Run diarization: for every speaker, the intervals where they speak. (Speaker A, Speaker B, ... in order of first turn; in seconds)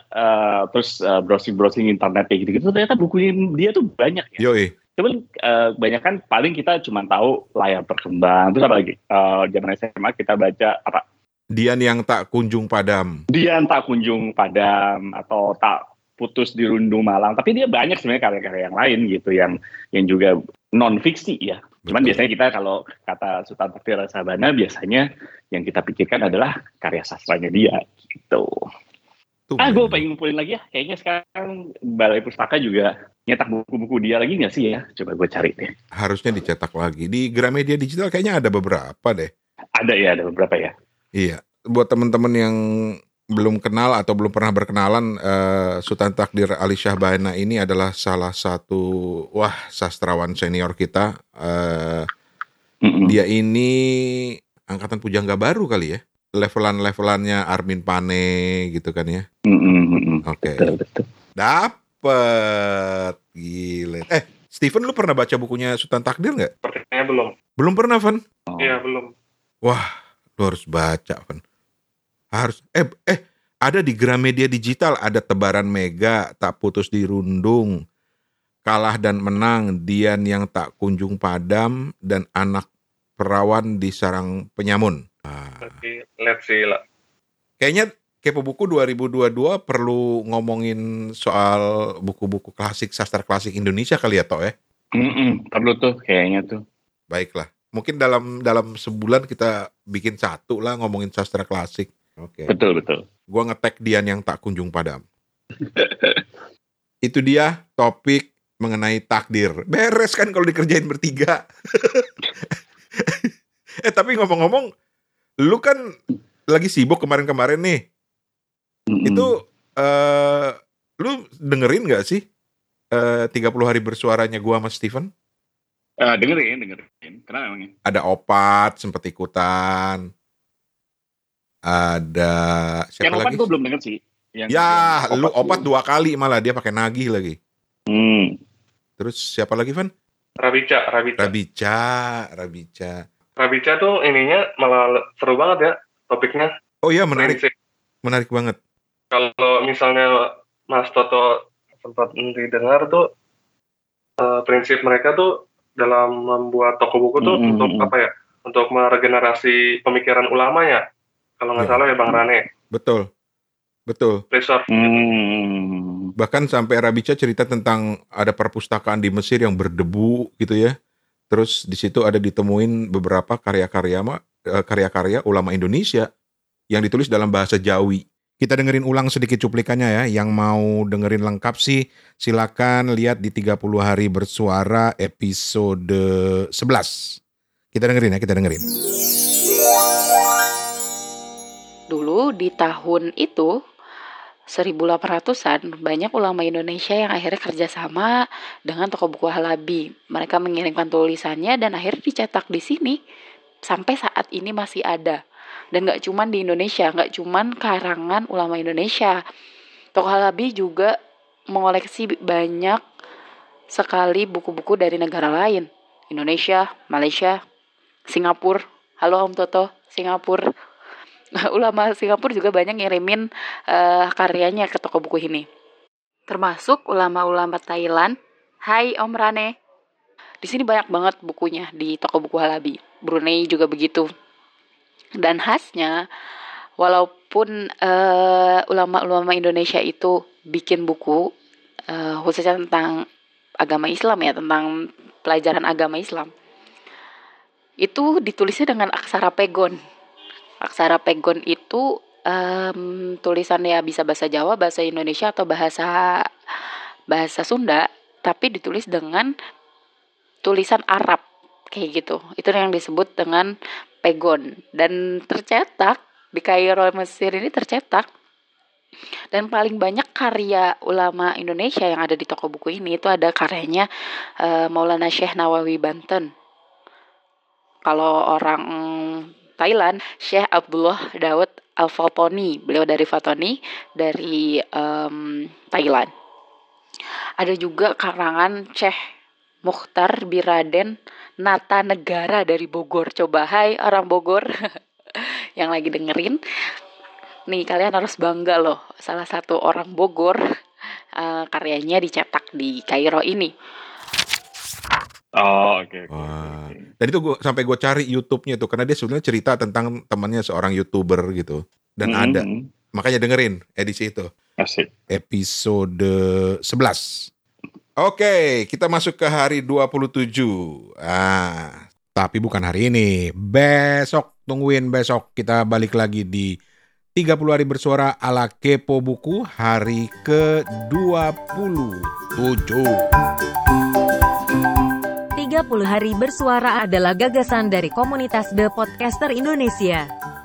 Speaker A: 0.1-11.0, 13.3-28.5, 29.6-35.7, 39.8-40.7, 52.8-53.2, 59.5-61.0, 68.5-68.8, 95.0-96.6, 102.5-103.0, 105.7-106.2, 118.9-119.3, 126.0-127.7, 133.0-135.6, 137.9-138.3, 157.2-157.9, 164.7-166.1, 305.4-306.8, 312.0-312.7, 314.6-314.9
Speaker B: 4.4-4.7, 11.5-13.2, 21.9-22.2, 29.5-30.0, 36.0-39.3, 41.2-42.6, 43.3-48.8, 49.4-52.1, 53.1-59.2, 60.2-60.7, 61.4-66.5, 67.6-68.2, 70.4-71.4, 72.3-77.7, 78.6-82.7, 83.2-85.8, 87.6-94.5, 97.1-102.5, 103.3-105.0, 107.0-111.4, 113.8-114.7, 115.4-115.8, 116.5-117.8, 119.0-122.2, 122.9-125.1, 127.8-130.0, 131.7-133.4, 134.5-137.3, 139.0-139.9, 141.2-143.0, 146.8-147.4, 148.0-148.6, 162.7-163.1, 163.9-164.2, 166.2-170.7, 171.3-176.1, 176.7-187.2, 187.7-188.6, 306.1-314.3, 315.1-317.3, 318.0-326.5, 327.1-333.1
Speaker C: 66.6-67.3, 68.6-69.1, 85.6-86.8, 140.4-141.3, 143.4-146.5, 147.2-147.5, 149.1-150.1, 150.7-151.3, 151.8-153.0, 154.2-160.8, 161.4-162.4, 164.3-165.1
Speaker D: 191.9-193.5, 194.5-198.1, 198.7-202.9, 203.7-205.2, 205.7-209.2, 209.9-210.9, 211.5-212.8, 213.7-217.3, 218.1-220.4, 221.5-225.4, 226.3-228.1, 228.7-229.5, 230.4-234.1, 235.2-236.0, 236.8-241.2, 241.9-243.0, 243.6-244.7, 245.2-246.3, 247.8-249.8, 250.6-256.0, 257.1-259.3, 260.4-261.2, 261.7-263.5, 264.0-268.0, 269.3-273.9, 274.4-276.3, 277.9-286.1, 287.4-288.9, 289.6-294.4, 295.6-296.4, 297.5-300.4, 301.2-303.5
Speaker E: 335.4-340.1